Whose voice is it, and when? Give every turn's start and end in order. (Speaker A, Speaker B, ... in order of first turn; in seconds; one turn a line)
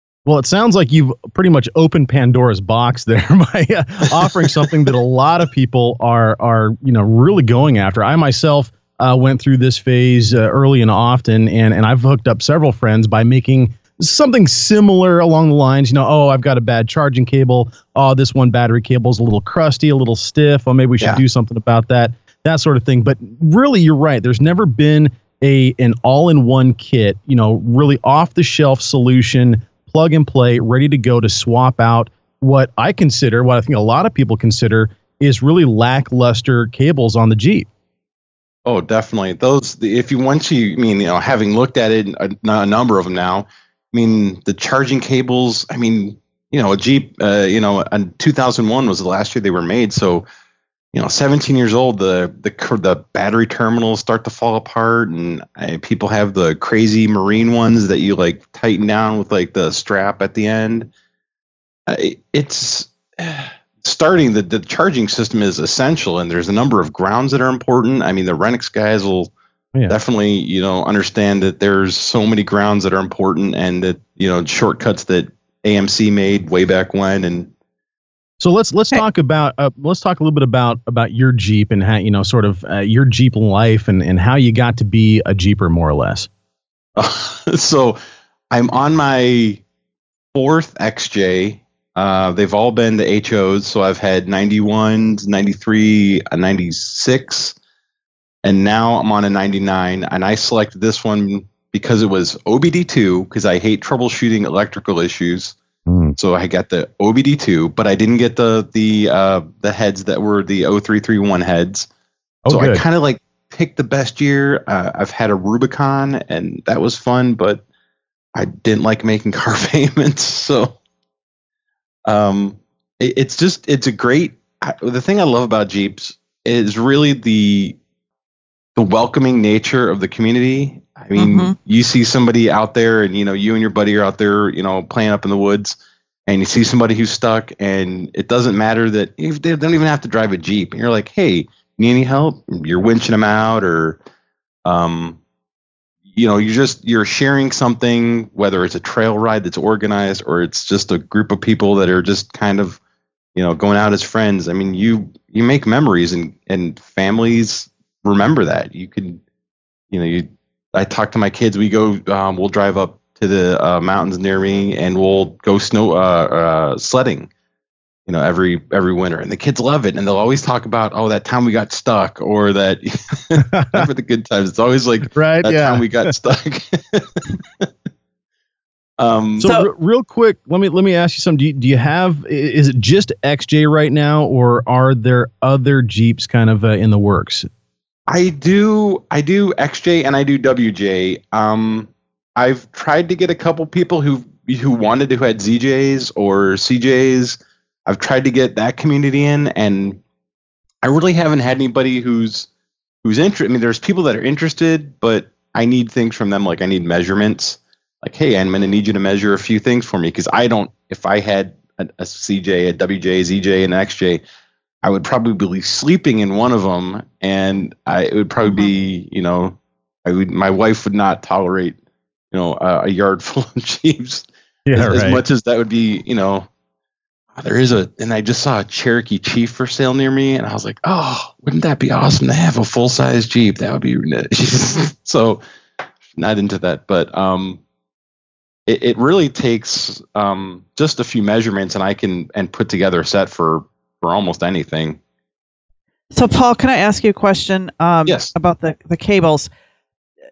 Speaker A: 0.3-37.7
Speaker B: 38.6-50.3
Speaker B: 50.9-60.9
Speaker B: 61.9-69.3
Speaker B: 69.9-77.5
Speaker A: 78.4-86.3
Speaker B: 87.0-88.0
Speaker B: 88.5-89.6
Speaker B: 90.3-97.5
Speaker B: 98.4-105.6
Speaker A: 105.9-106.2
Speaker B: 106.2-111.9
Speaker A: 112.5-112.8
Speaker B: 112.5-117.6
Speaker B: 118.3-120.8
Speaker B: 122.1-127.8
Speaker B: 128.8-144.0
Speaker C: 131.2-131.6
Speaker B: 144.7-145.2
Speaker B: 146.1-152.8
Speaker B: 153.3-159.2
Speaker B: 159.9-167.3
Speaker B: 168.1-177.7
Speaker A: 173.3-173.9
Speaker A: 175.1-176.1
Speaker B: 179.0-179.5
Speaker A: 179.4-187.5
Speaker C: 179.4-179.7
Speaker B: 188.1-200.0
Speaker B: 200.8-202.5
Speaker B: 203.0-214.2
Speaker B: 214.8-221.8
Speaker B: 222.3-226.5
Speaker A: 224.7-225.2
Speaker B: 227.3-235.4
Speaker B: 236.2-237.6
Speaker B: 238.7-245.0
Speaker C: 246.1-249.5
Speaker B: 248.1-248.3